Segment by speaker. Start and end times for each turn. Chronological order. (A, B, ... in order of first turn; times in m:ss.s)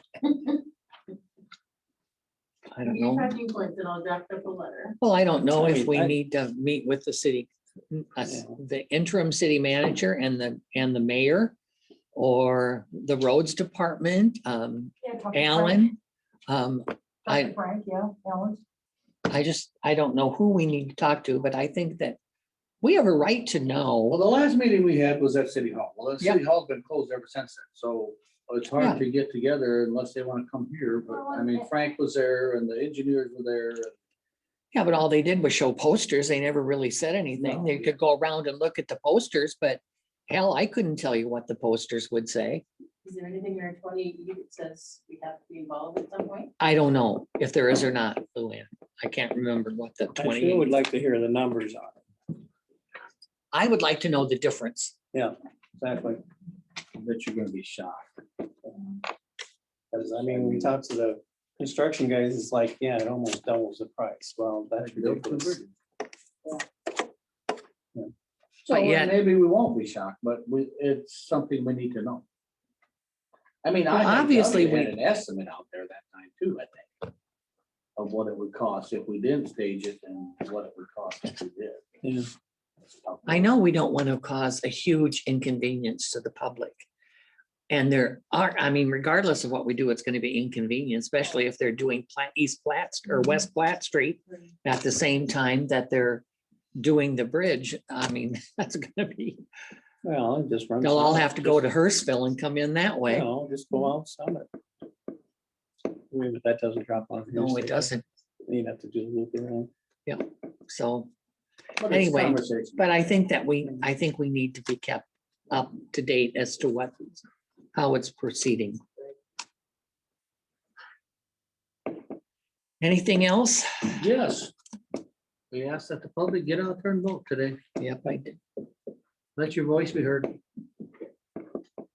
0:02.7-0:03.3 A
0:02.8-0:05.0 B
0:05.0-0:11.6 A
0:05.5-0:06.2 C
0:08.3-0:08.6 C
0:12.1-0:16.0 A
0:15.0-0:15.9 B
0:16.5-0:17.5 A
0:17.2-0:18.6 B
0:19.3-0:22.2 A
0:22.8-0:24.2 A
0:24.1-0:33.9 D
0:31.1-0:31.7 B
0:34.7-0:42.6 A
0:37.4-0:37.9 D
0:43.0-0:46.5 B
0:46.6-0:50.7 A
0:50.1-0:52.0 C
0:53.5-0:54.9 A
0:55.1-0:56.2 C
0:56.9-0:58.1 D
0:59.9-1:05.6 C
1:04.8-1:05.7 D
1:08.6-1:12.2 D
1:08.7-1:09.1 A
1:13.6-1:17.1 D
1:13.9-1:14.9 A
1:18.0-1:21.8 D
1:22.0-1:22.3 C
1:23.0-1:23.5 D
1:23.3-1:26.8 A
1:27.7-1:36.2 A
1:36.8-1:39.4 A
1:40.0-1:41.8 C
1:40.8-1:43.3 A
1:43.1-1:44.5 C
1:46.1-1:47.9 C
1:47.3-1:48.0 A
1:48.4-1:49.7 C
1:50.0-1:51.1 A
1:51.8-1:52.8 D
1:51.9-1:57.2 A
1:57.7-1:58.8 A
2:02.8-2:04.0 A
2:04.0-2:04.5 D
2:05.5-2:07.6 D
2:07.8-2:08.4 A
2:09.4-2:10.4 D